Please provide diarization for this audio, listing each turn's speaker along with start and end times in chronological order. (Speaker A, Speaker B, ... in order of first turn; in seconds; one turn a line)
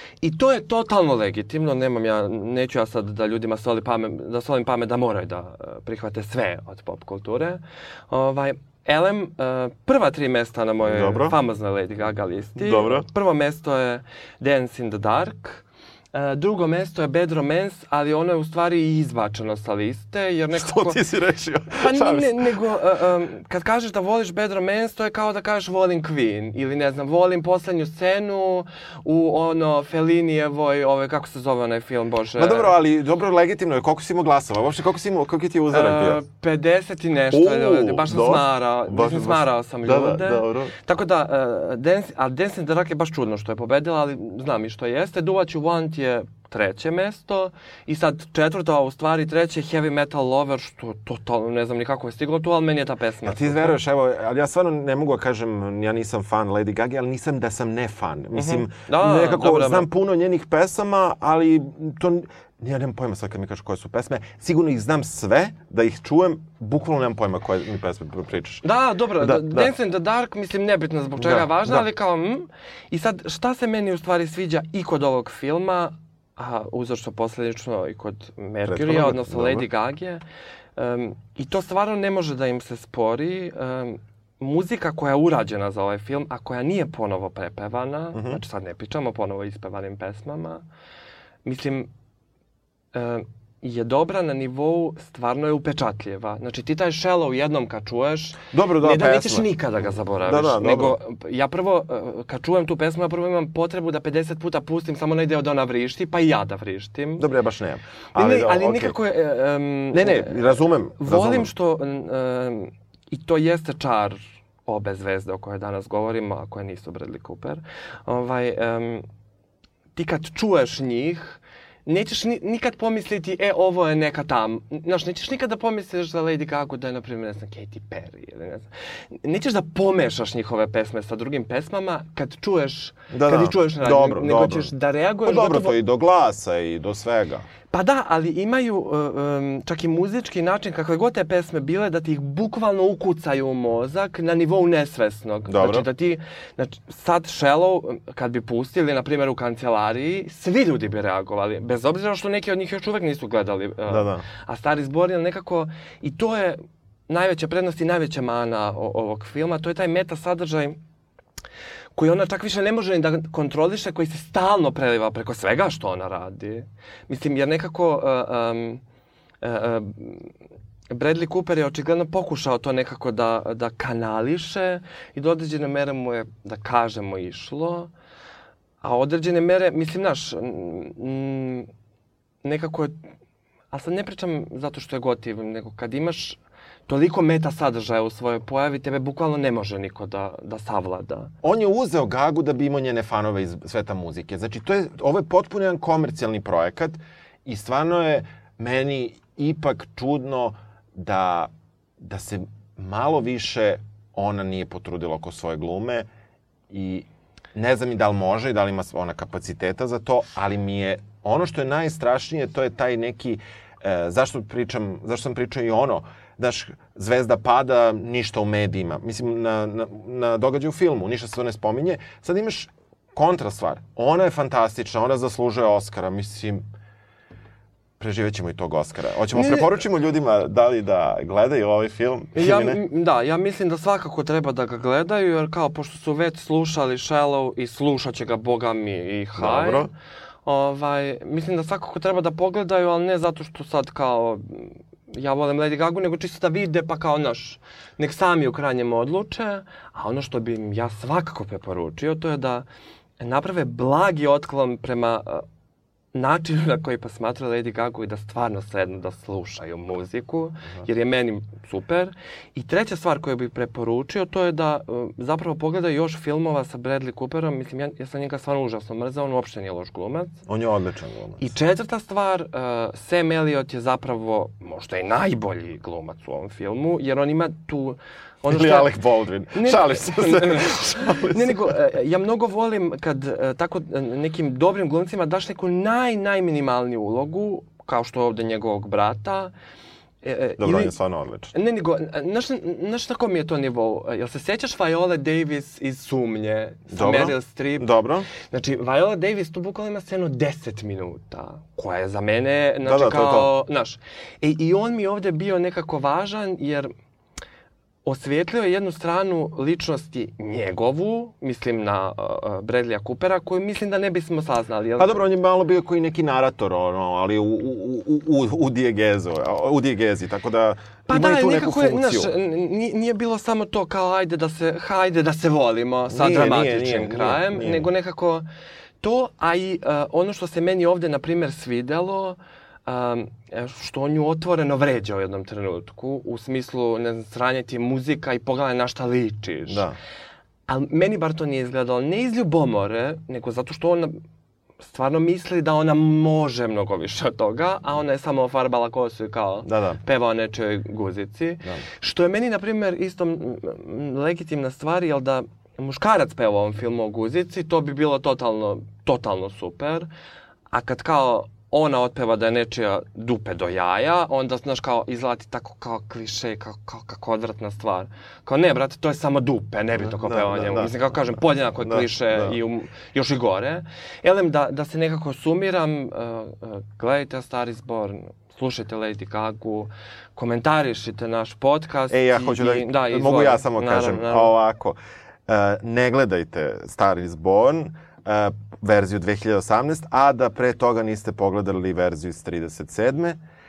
Speaker A: 0.2-21.0
Speaker B: 10.8-11.4
Speaker B: 12.6-13.1
Speaker B: 20.5-22.6
Speaker A: 21.7-32.7
Speaker B: 32.4-36.2
Speaker A: 35.7-53.8
Speaker B: 37.3-40.7
Speaker B: 53.2-68.7
Speaker A: 58.3-59.9
Speaker A: 68.6-80.2
Speaker B: 69.2-69.7
Speaker B: 71.2-71.8
Speaker B: 78.7-79.7
Speaker A: 80.8-90.6
Speaker B: 88.1-88.4
Speaker A: 91.5-91.9
Speaker A: 92.9-107.2
Speaker B: 98.5-99.5
Speaker B: 100.3-101.0
Speaker B: 107.2-109.0
Speaker A: 108.2-119.1
Speaker B: 109.9-111.5
Speaker A: 120.0-135.8
Speaker B: 133.1-134.7
Speaker B: 135.2-137.5
Speaker A: 137.7-160.8
Speaker B: 145.5-145.9
Speaker B: 153.9-154.2
Speaker A: 162.0-168.8
Speaker A: 169.4-170.3
Speaker A: 170.9-177.9
Speaker A: 178.8-181.7
Speaker A: 182.4-183.0
Speaker A: 183.7-191.3
Speaker B: 191.4-206.1
Speaker B: 206.7-226.6
Speaker B: 228.0-232.8
Speaker A: 229.3-229.7
Speaker A: 232.3-239.9
Speaker B: 239.4-239.9
Speaker A: 240.4-252.7
Speaker A: 253.2-255.4
Speaker A: 256.1-270.4
Speaker B: 270.5-271.4
Speaker A: 271.4-278.9
Speaker B: 278.5-281.8
Speaker A: 279.5-289.5
Speaker A: 290.2-290.9
Speaker B: 290.6-291.5
Speaker A: 291.5-297.9
Speaker B: 296.9-298.3
Speaker A: 298.4-306.9
Speaker B: 302.9-303.5
Speaker A: 308.1-315.2
Speaker B: 315.0-322.3
Speaker A: 321.1-328.4
Speaker B: 326.1-327.9
Speaker A: 329.0-339.9
Speaker B: 339.7-340.0
Speaker A: 340.7-344.2
Speaker A: 344.9-360.1
Speaker B: 349.6-350.0
Speaker A: 360.7-384.5
Speaker B: 370.0-372.6
Speaker B: 382.1-393.4